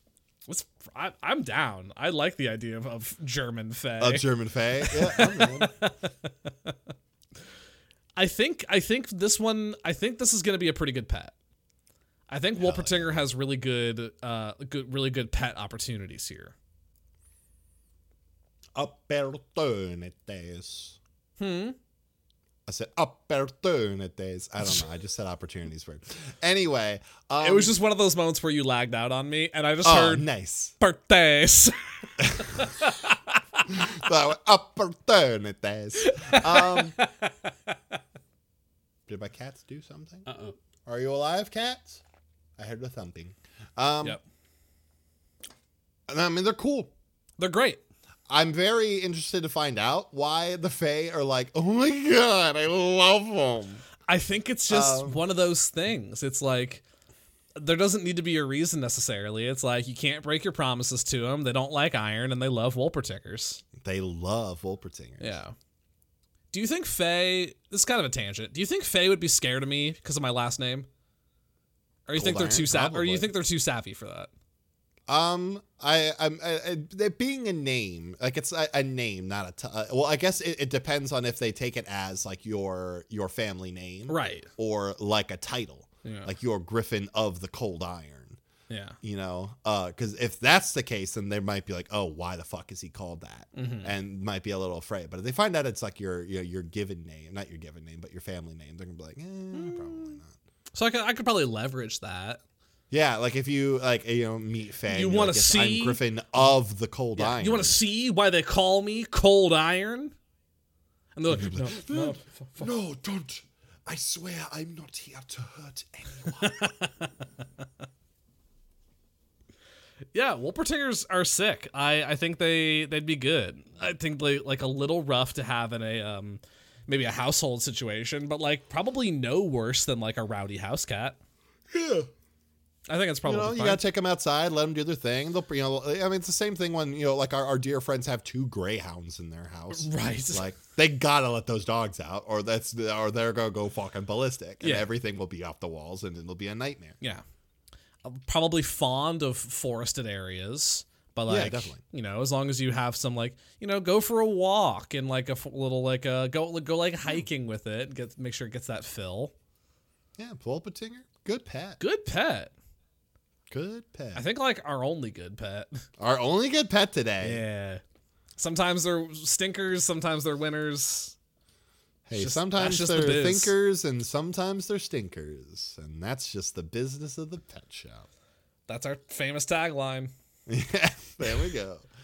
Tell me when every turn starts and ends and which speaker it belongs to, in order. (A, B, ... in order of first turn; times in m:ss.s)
0:00.5-0:04.3 A
0:04.0-0:05.7 B
0:04.8-0:06.8 A
0:08.2-0:11.3 A
0:12.3-0:16.5 A
0:12.6-0:13.2 B
0:18.7-0:21.0 B
0:21.4-0:21.8 A
0:22.7-0:27.7 B
0:27.4-0:33.6 A
0:29.8-0:30.7 B
0:32.2-0:32.7 B
0:33.7-0:37.0 B
0:36.0-0:37.9 A
0:39.1-0:40.2 B
0:40.3-0:40.5 A
0:40.8-0:42.0 B
0:42.6-0:44.2 B
0:46.1-0:46.9 B
0:47.4-0:47.8 A
0:48.3-0:53.8 B
0:54.1-0:56.8 A
0:54.7-0:55.2 B
0:57.6-1:03.6 A
1:03.8-1:05.4 B
1:05.2-1:05.5 A
1:06.5-1:10.9 A
1:12.1-1:14.3 A
1:12.1-1:13.3 B
1:15.1-1:28.4 B
1:24.1-1:24.5 A
1:26.0-1:26.3 A
1:28.7-1:29.0 A
1:29.0-1:40.4 B
1:33.5-1:33.9 A
1:39.5-1:40.2 A
1:40.7-1:42.4 A
1:42.9-1:47.8 B
1:44.9-1:46.0 A
1:47.2-1:50.1 A
1:51.1-1:52.7 A
1:51.3-1:56.7 B
1:56.3-1:57.1 A
2:00.1-2:11.2 A
2:11.7-2:12.1 B
2:12.9-2:13.8 A
2:13.2-2:27.0 B
2:19.7-2:20.5 A
2:24.6-2:24.9 A
2:28.0-2:39.3 A
2:31.3-2:31.8 B
2:40.2-2:41.8 B
2:41.8-2:42.5 A
2:43.5-2:44.2 B
2:44.1-2:45.8 A
2:46.0-2:47.4 B
2:47.2-2:47.8 A
2:48.4-2:51.1 A
2:52.0-2:58.0 B
2:52.1-2:53.5 A
2:58.7-3:00.1 A
3:00.5-3:01.8 B